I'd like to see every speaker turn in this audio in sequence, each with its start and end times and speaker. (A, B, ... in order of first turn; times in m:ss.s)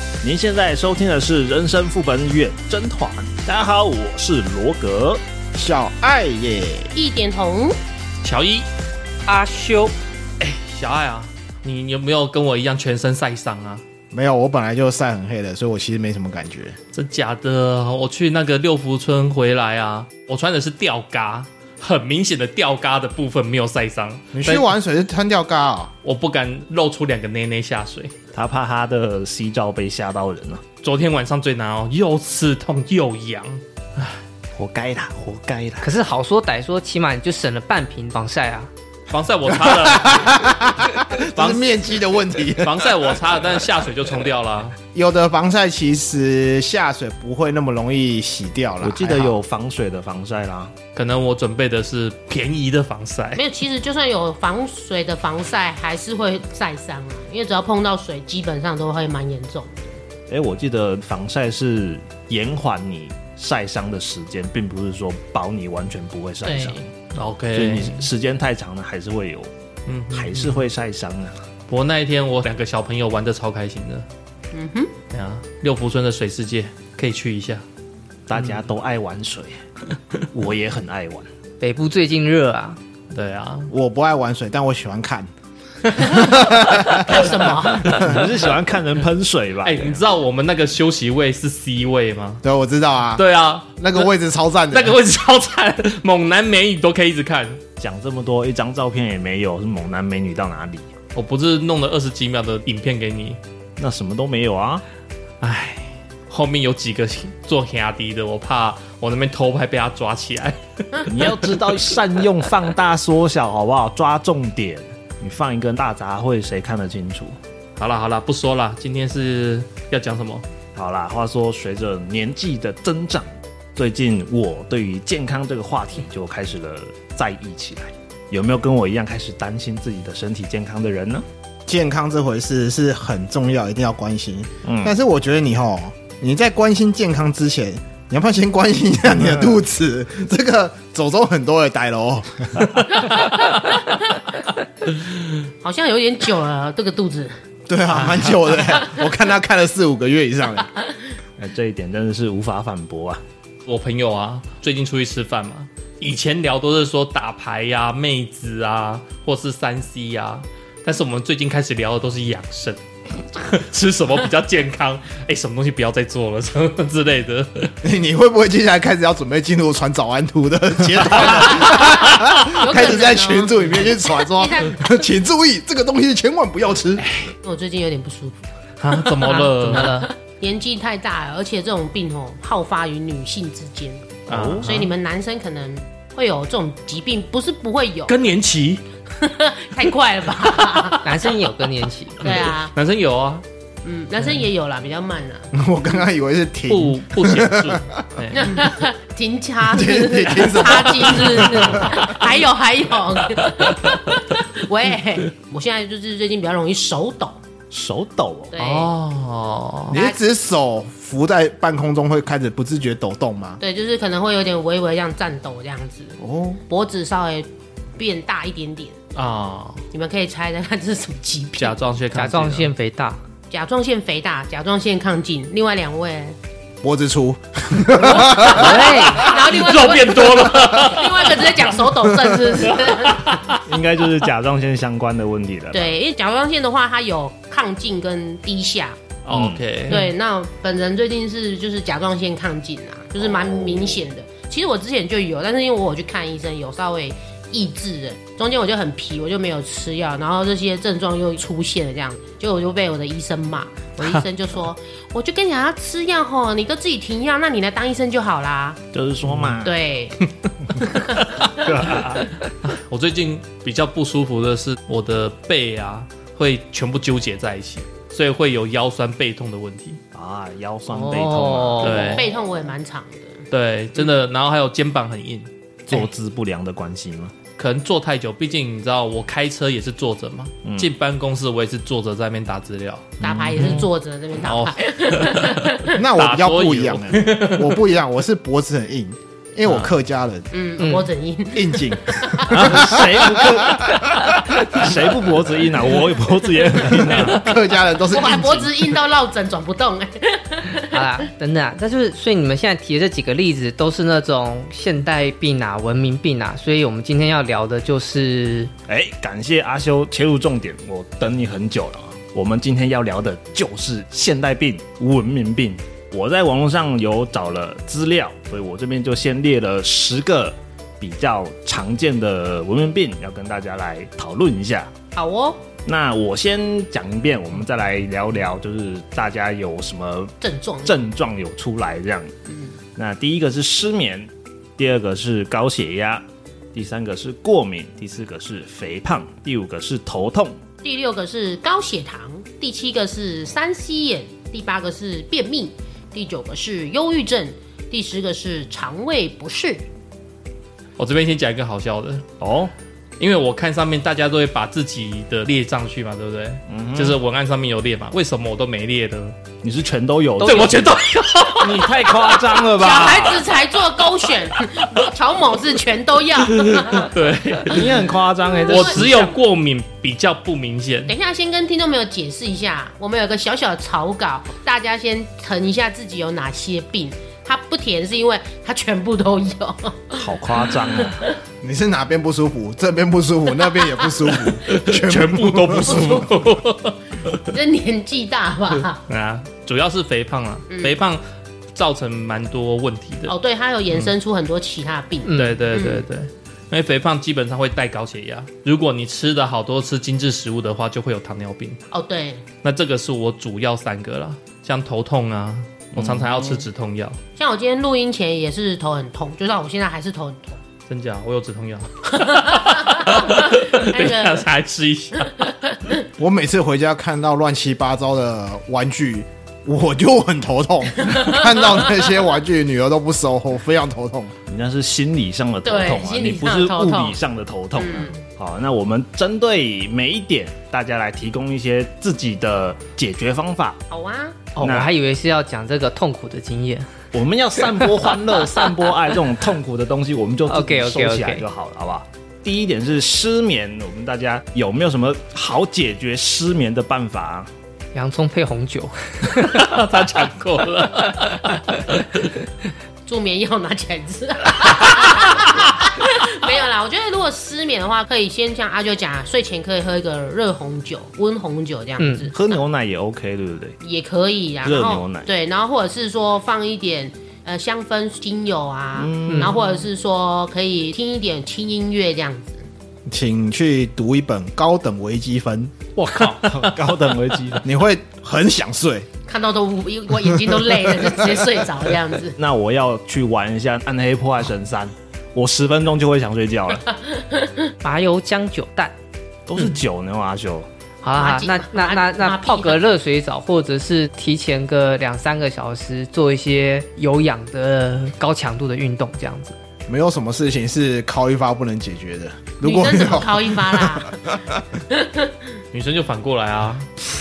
0:00.2-0:05.2 A
0:05.5-0:06.9 B
0:07.0-0:07.8 C
0:08.2-0:08.7 D
0:09.3-0:09.9 E
0:10.4-0:13.8 D
0:14.1-0:16.8 B
0:16.9-0:24.7 D
0:24.3-0:25.9 B
0:26.0-0:28.2 D
0:28.3-0:30.6 A
0:30.8-0:34.2 D
0:34.5-0:35.9 A
0:35.8-0:38.7 E
0:39.1-0:40.5 D
0:39.6-0:43.0 B
0:41.4-0:41.7 D
0:42.6-0:44.8 D
0:44.9-0:49.4 B
0:48.8-0:50.7 A
0:51.0-0:53.4 D
0:53.4-0:59.9 C
1:00.3-1:06.9 A
1:06.4-1:06.8 C
1:07.1-1:08.1 D
1:07.5-1:09.5 A
1:09.9-1:10.6 D
1:10.1-1:11.4 A
1:11.7-1:14.1 D
1:14.5-1:14.9 C
1:15.1-1:17.6 D
1:18.3-1:19.6 A
1:20.3-1:21.3 A
1:21.6-1:22.8 E
1:23.1-1:23.7 D
1:23.7-1:25.3 B
1:25.9-1:26.2 D
1:26.0-1:28.2 B
1:27.1-1:28.0 C
1:27.1-1:28.3 D
1:27.9-1:30.0 A
1:29.6-1:32.4 D
1:32.4-1:33.2 B
1:33.2-1:34.1 D
1:33.8-1:35.0 B
1:34.7-1:37.6 D
1:37.8-1:40.9 A
1:41.2-1:43.4 D
1:43.8-1:44.8 A
1:45.4-1:51.3 D
1:51.1-1:57.4 A
1:57.8-2:00.4 D
2:00.8-2:11.2 A
2:11.7-2:22.8 B
2:14.6-2:14.9 A
2:25.6-2:27.4 C
2:27.7-2:30.7 B
2:27.9-2:28.4 D
2:31.4-2:33.2 A
2:33.7-2:47.7 D
2:47.8-2:57.1 B
2:51.1-2:54.9 C
2:57.0-2:57.3 D
2:57.3-2:58.4 C
2:58.8-2:59.9 D
2:58.9-3:08.2 C
2:59.2-3:00.1 E
3:04.3-3:04.7 A
3:04.3-3:04.9 D
3:08.1-3:08.8 D
3:09.2-3:11.2 C
3:11.0-3:12.3 E
3:12.2-3:12.7 C
3:12.2-3:13.4 D
3:13.8-3:15.5 C
3:15.5-3:18.1 B
3:16.7-3:18.7 D
3:18.3-3:27.4 C
3:19.7-3:22.1 B
3:27.7-3:28.5 A
3:28.5-3:29.0 C
3:28.6-3:30.0 D
3:29.9-3:30.2 C
3:29.9-3:33.6 B
3:33.6-3:39.0 C
3:36.2-3:36.6 B
3:39.1-3:39.9 D
3:39.9-3:41.8 C
3:41.6-3:42.7 D
3:42.2-3:43.2 E
3:43.5-3:46.4 C
3:46.8-3:48.8 B
3:48.0-3:53.6 C
3:48.5-3:49.3 E
3:49.1-3:51.8 D
3:52.6-3:53.6 D
3:53.6-3:56.0 A
3:55.7-3:59.0 C
3:59.3-4:00.1 D
3:59.3-3:59.6 A
3:59.9-4:18.8 C
4:03.2-4:04.0 A
4:18.9-4:19.7 A
4:19.6-4:20.2 C
4:20.8-4:21.5 C
4:21.2-4:30.0 D
4:21.6-4:22.4 A
4:30.1-4:32.2 A
4:30.9-4:32.2 E
4:31.8-4:32.4 D
4:32.0-4:33.4 C
4:33.5-4:36.1 D
4:35.9-4:37.3 A
4:37.6-4:43.9 D
4:40.6-4:40.9 A
4:43.2-4:46.0 C
4:44.4-4:47.8 D
4:46.0-4:50.5 B
4:49.6-4:49.9 D
4:50.5-4:52.8 C
4:50.8-4:51.1 E
4:51.5-4:54.6 B
4:52.5-4:57.5 A
4:56.8-4:59.0 B
4:57.1-4:57.4 D
4:58.1-5:01.0 C
5:00.9-5:08.7 E
5:08.9-5:24.9 A
5:25.1-5:25.6 C
5:25.8-5:32.3 A
5:30.4-5:31.1 C
5:32.5-5:32.8 C
5:33.0-5:40.6 A
5:40.8-5:49.9 C
5:51.0-5:52.3 D
5:52.4-5:52.7 A
5:53.2-5:59.4 D
5:56.7-5:57.2 A
5:59.6-6:01.0 A
6:00.4-6:00.7 E
6:00.4-6:02.5 D
6:01.6-6:03.5 A
6:02.8-6:07.2 C
6:06.5-6:08.1 D
6:07.6-6:09.3 A
6:08.7-6:11.1 D
6:11.1-6:21.2 C
6:20.1-6:21.2 A
6:21.6-6:26.2 B
6:24.6-6:27.4 D
6:25.9-6:26.4 C
6:27.3-6:29.0 C
6:29.1-6:31.2 D
6:30.7-6:31.0 C
6:31.7-6:33.4 D
6:33.3-6:36.1 C
6:33.9-6:34.2 D
6:35.3-6:35.6 E
6:35.3-6:41.8 D
6:41.9-6:42.4 C
6:42.6-6:47.2 D
6:45.9-6:46.4 A
6:47.4-6:50.6 C
6:50.9-6:55.6 D
6:52.1-6:54.4 C
6:55.4-6:56.0 C
6:56.2-7:04.3 B
7:01.0-7:01.7 C
7:04.5-7:13.8 A
7:05.6-7:07.2 C
7:07.8-7:08.2 C
7:13.9-7:14.5 C
7:14.6-7:16.9 E
7:14.6-7:14.9 A
7:17.1-7:27.5 A
7:20.5-7:21.4 E
7:27.9-7:29.7 E
7:29.3-7:32.3 D
7:33.1-7:42.6 C
7:42.0-7:42.3 E
7:42.3-7:43.8 A
7:43.8-7:52.6 C
7:44.6-7:45.3 A
7:49.0-7:49.6 A
7:49.3-7:49.6 E
7:53.1-7:55.8 B
7:56.0-7:57.7 A
7:56.1-7:56.7 D
7:57.6-7:59.1 B
7:59.3-8:02.4 C
8:00.3-8:01.4 B
8:02.4-8:06.8 A
8:06.9-8:07.7 C
8:07.8-8:08.9 E
8:09.5-8:10.7 A
8:11.0-8:19.6 E
8:11.2-8:12.8 C
8:19.9-8:24.6 B
8:22.6-8:24.2 C
8:24.9-8:25.3 C
8:25.7-8:26.9 D